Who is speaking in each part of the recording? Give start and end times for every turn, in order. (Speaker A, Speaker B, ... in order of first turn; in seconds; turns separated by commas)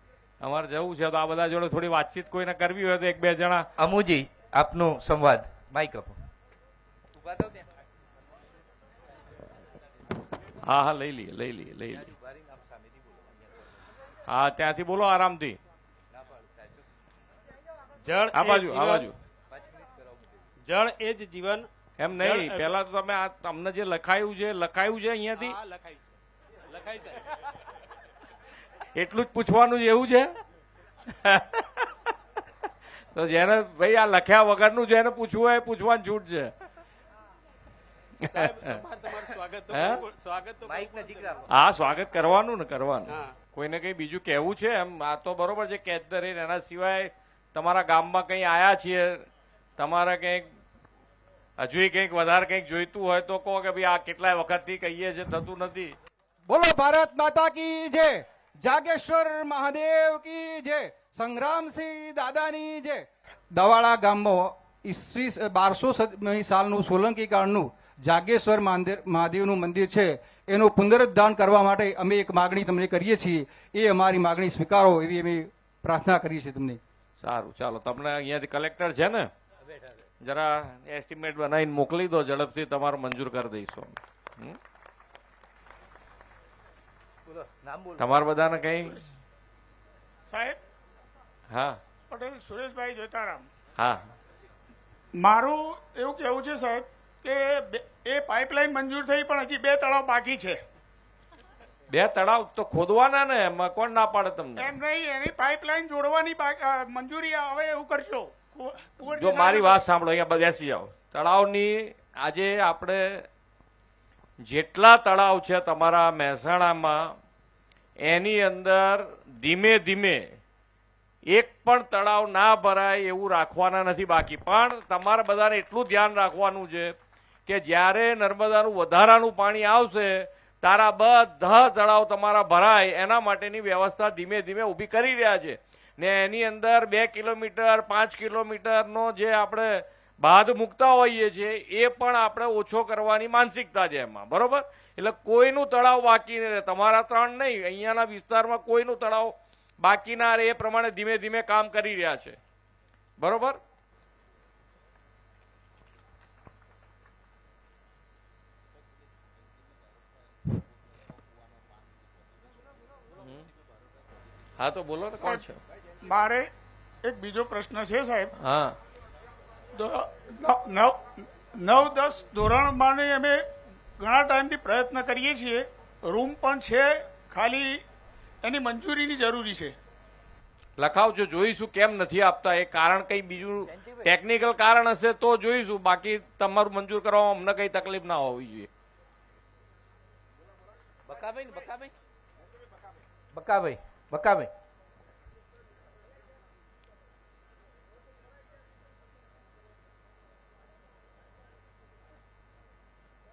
Speaker A: 0.4-3.6, Speaker B: 3.8-6.2, Speaker B: 7.1-7.7, Speaker A: 10.6-12.1, Speaker B: 11.9-13.8, Speaker A: 14.3-15.6, Speaker B: 16.1-16.9, Speaker C: 18.0-19.1, Speaker A: 18.3-19.1, Speaker B: 19.5-20.5, Speaker C: 20.6-22.7, Speaker A: 22.0-25.6, Speaker C: 25.4-26.1, Speaker C: 26.6-27.3, Speaker A: 28.9-30.3, Speaker A: 31.1-31.9, Speaker A: 33.1-36.5, Speaker A: 38.3-38.8, Speaker C: 38.3-41.4, Speaker A: 39.7-40.0, Speaker B: 40.6-41.5, Speaker A: 41.5-49.2, Speaker C: 43.1-43.3, Speaker A: 49.8-50.5, Speaker A: 51.6-55.9, Speaker D: 56.5-76.8, Speaker A: 77.2-79.3, Speaker B: 79.7-80.0, Speaker A: 80.2-84.6, Speaker B: 87.2-88.1, Speaker A: 88.0-89.0, Speaker E: 88.8-89.1, Speaker E: 90.3-90.6, Speaker A: 91.5-91.8, Speaker E: 92.1-93.5, Speaker A: 93.8-94.0, Speaker E: 95.2-100.6, Speaker A: 101.9-104.7, Speaker E: 104.6-109.8, Speaker A: 109.1-113.2, Speaker A: 114.4-117.1, Speaker A: 118.0-120.2, Speaker A: 121.3-126.9, Speaker A: 127.5-152.4, Speaker A: 153.2-153.6, Speaker A: 164.6-165.6, Speaker E: 165.1-165.4, Speaker E: 166.0-166.5, Speaker E: 167.0-168.3, Speaker A: 168.4-168.8, Speaker E: 169.7-173.4, Speaker E: 174.0-177.8, Speaker E: 178.4-179.8, Speaker A: 180.8-188.7, Speaker B: 183.7-184.1, Speaker B: 191.1-191.9, Speaker B: 193.3-194.5